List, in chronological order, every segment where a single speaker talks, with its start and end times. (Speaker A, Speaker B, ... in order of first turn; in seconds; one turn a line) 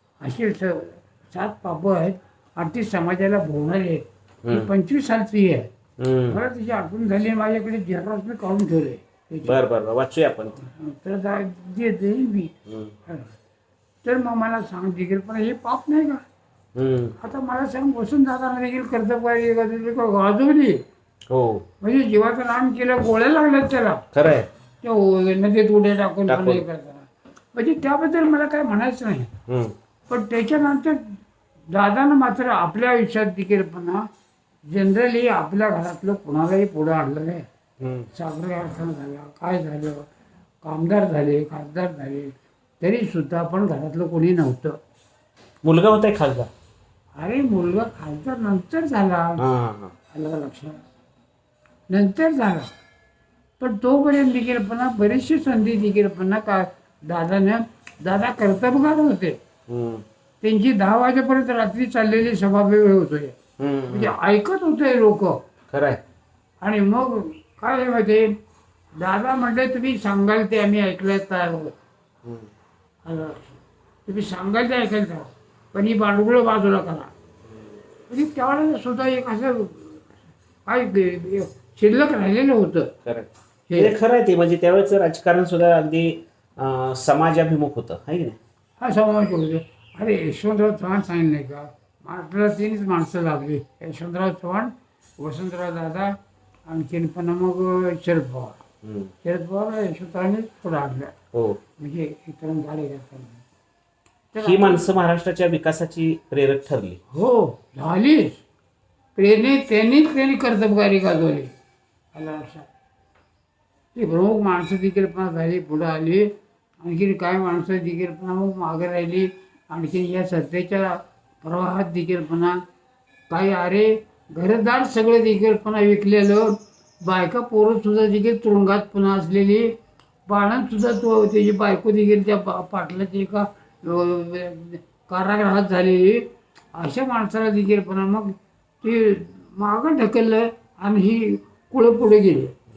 Speaker A: 0.2-5.7
Speaker B: 4.4-4.7
Speaker B: 6.0-6.4
Speaker A: 6.3-9.6
Speaker B: 9.4-10.6
Speaker A: 10.6-12.5
Speaker B: 12.7-12.9
Speaker A: 13.1-13.3
Speaker A: 14.0-16.2
Speaker B: 16.7-17.1
Speaker A: 17.2-20.8
Speaker B: 21.3-21.6
Speaker A: 21.8-24.0
Speaker B: 24.1-24.5
Speaker A: 24.8-29.3
Speaker B: 26.3-26.6
Speaker B: 29.5-29.7
Speaker A: 30.1-31.2
Speaker A: 31.7-34.0
Speaker A: 34.7-37.5
Speaker B: 37.8-38.1
Speaker A: 38.1-40.1
Speaker A: 40.6-44.8
Speaker B: 45.6-46.5
Speaker A: 47.2-49.4
Speaker B: 49.4-49.9
Speaker A: 50.1-50.8
Speaker A: 51.9-52.7
Speaker A: 53.6-59.4
Speaker B: 59.7-60.0
Speaker A: 60.4-63.4
Speaker B: 63.6-64.1
Speaker A: 63.9-65.4
Speaker B: 65.7-66.0
Speaker A: 66.6-68.3
Speaker A: 69.0-71.7
Speaker A: 73.0-77.1
Speaker A: 78.1-80.0
Speaker A: 80.7-82.9
Speaker B: 83.0-88.4
Speaker A: 83.7-83.9
Speaker A: 88.8-96.2
Speaker A: 96.7-98.6
Speaker B: 98.8-99.1
Speaker A: 99.2-101.1
Speaker B: 101.3-101.6
Speaker A: 101.8-103.4
Speaker A: 104.3-104.9
Speaker B: 104.4-107.0
Speaker A: 107.1-108.4
Speaker A: 109.2-111.5
Speaker A: 112.1-112.7
Speaker A: 113.9-122.6
Speaker A: 123.3-129.7
Speaker A: 130.3-142.5